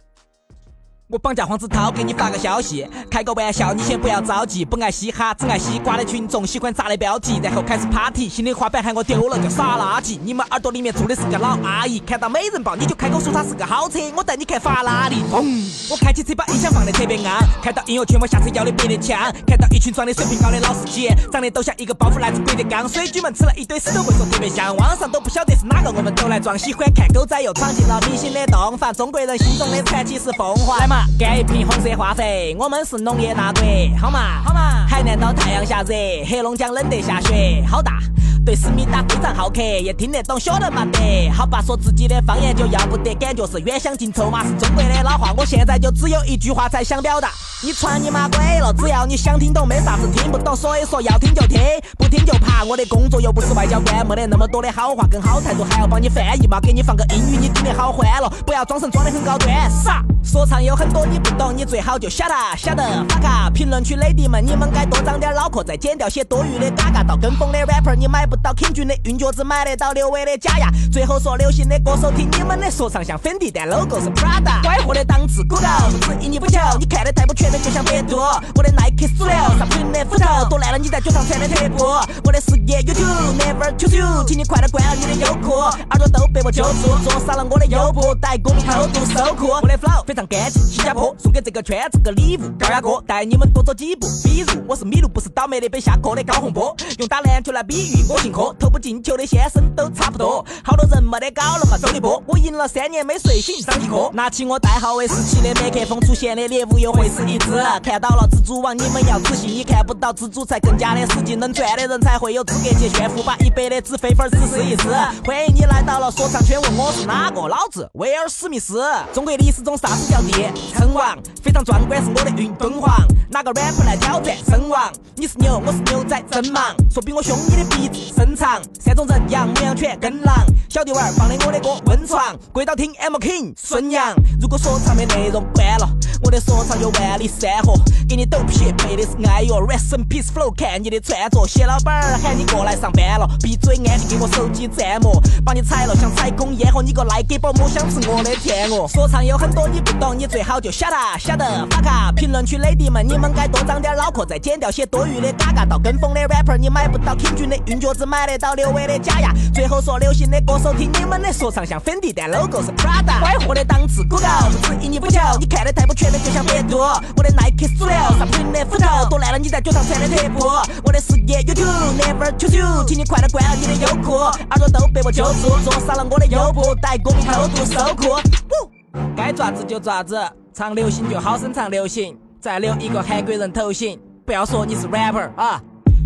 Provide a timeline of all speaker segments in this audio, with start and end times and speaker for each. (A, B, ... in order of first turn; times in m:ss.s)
0:01.1-3:05.6 A